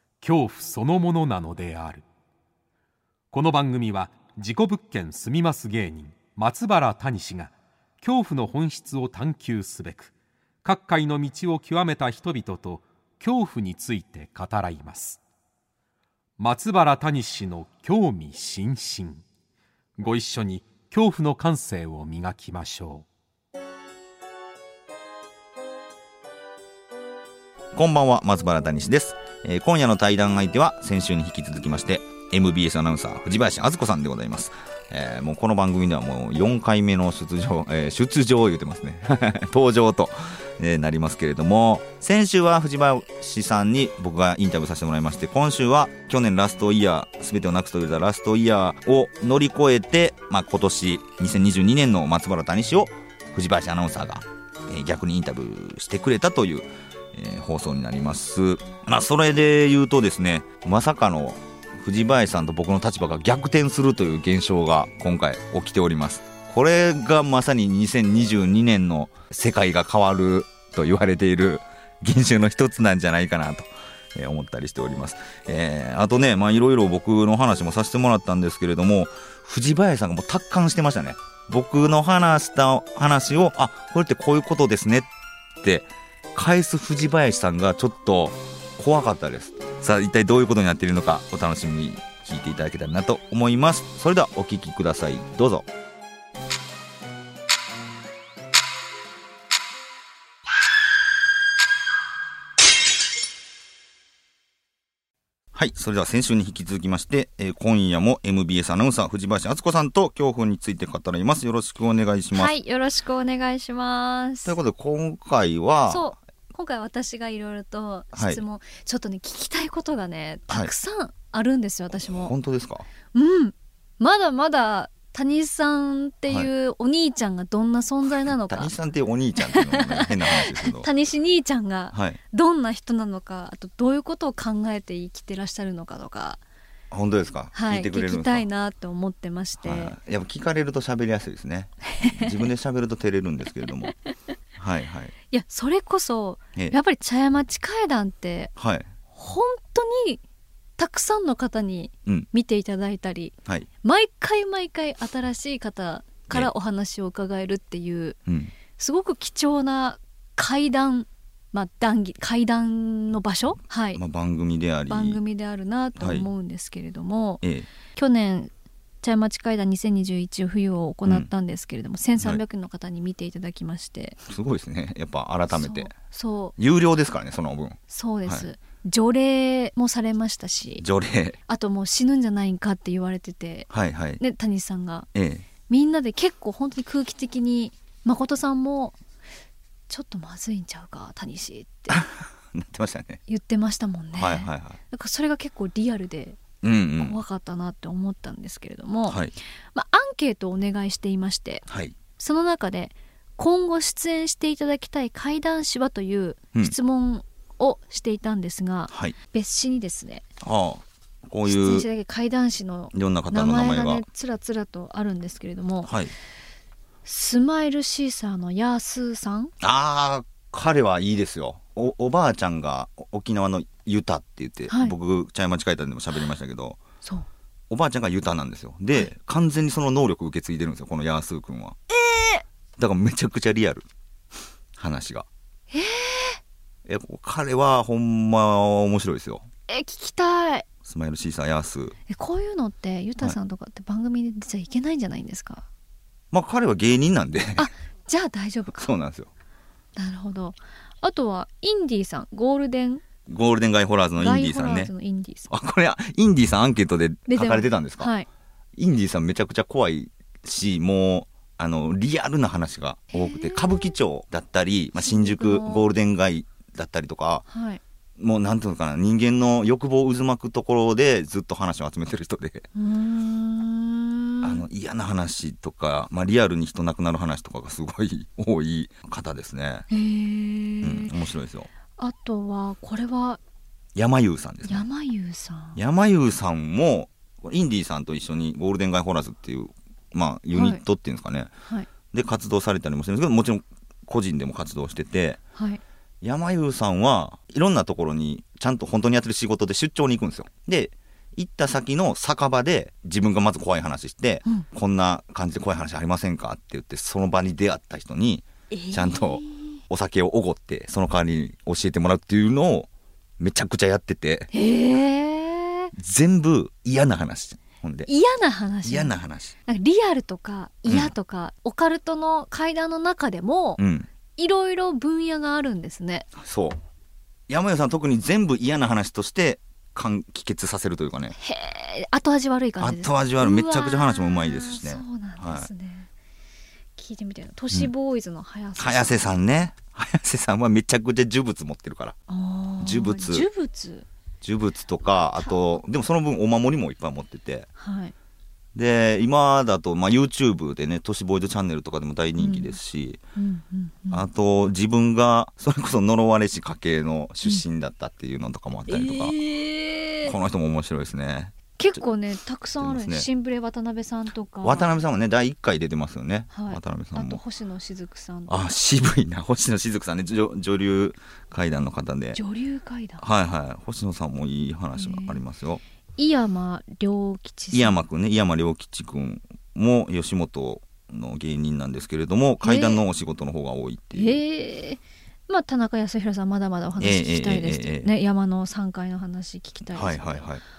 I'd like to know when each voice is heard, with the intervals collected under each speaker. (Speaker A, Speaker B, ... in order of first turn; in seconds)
Speaker A: 0.2-2.0, 3.3-10.1, 10.6-15.2, 16.4-19.2, 20.0-23.1
Speaker B: 27.8-85.1, 85.6-95.7, 105.5-112.5, 114.5-116.1, 118.1-118.4, 121.9-122.9, 128.5-130.9, 131.9-132.2, 136.9-138.5, 139.6-143.9, 144.6-145.1, 148.6-148.9, 158.3-158.5, 163.9-165.2, 166.0-166.3, 167.4-167.7, 174.2-175.9, 176.6-178.5, 180.8-181.4, 183.7-184.2, 185.1-185.4, 191.9-193.2, 194.1-194.8, 196.6-197.2, 199.1-199.3, 201.7-201.9, 210.4-211.8, 212.9-214.0, 215.8-216.1, 219.6-226.8, 227.7-231.8, 232.8-233.8, 234.8-235.3, 236.8-239.5, 240.8-241.9, 246.3-247.7, 248.7-249.3, 253.3-254.9, 255.5-258.1, 258.8-267.4, 268.2-272.6, 274.4-279.9, 280.8-281.7, 283.9-284.9, 285.8-291.5, 292.1-295.4, 296.2-314.5, 315.9-318.1, 318.9-319.6, 323.8-324.1, 326.4-326.8, 327.5-331.4, 332.8-335.7, 338.8-342.2, 342.8-343.5, 344.4-347.7, 348.8-353.2, 354.1-359.4, 360.2-362.0, 362.8-363.3, 364.6-367.4, 368.5-372.4, 373.2-375.8, 377.7-384.4, 387.0-388.1, 389.9-390.6
Speaker C: 112.3-114.6, 115.9-122.3, 123.1-128.7, 129.4-136.4, 137.5-139.9, 141.9-142.3, 145.3-148.5, 149.1-150.2, 150.8-158.2, 158.7-164.0, 164.9-167.4, 167.9-168.5, 169.0-174.2, 175.5-176.6, 177.9-180.8, 181.5-185.1, 185.7-188.9, 189.9-192.0, 193.3-196.4, 197.0-199.2, 199.7-201.7, 202.2-210.2, 211.4-215.9, 217.0-219.5, 224.7-224.9, 231.9-232.4, 235.7-236.4, 239.7-240.7, 242.1-245.7, 247.6-248.9, 250.0-253.0, 254.2-255.5, 257.3-258.2, 263.1-263.9, 265.0-265.9, 267.5-267.8, 272.8-274.6, 279.9-281.1, 282.0-283.4, 284.6-285.8, 290.5-290.8, 295.6-295.8, 308.7-309.8, 314.5-315.9, 318.1-319.1, 319.7-323.8, 324.4-326.3, 331.4-336.1, 337.0-339.3, 342.3-344.1, 345.4-345.8, 347.8-348.1, 352.4-352.8, 353.4-354.2, 358.9-360.4, 361.8-364.9, 366.5-368.7, 372.4-373.2, 374.9-375.4, 376.2-377.9, 382.6-383.0, 384.1-390.5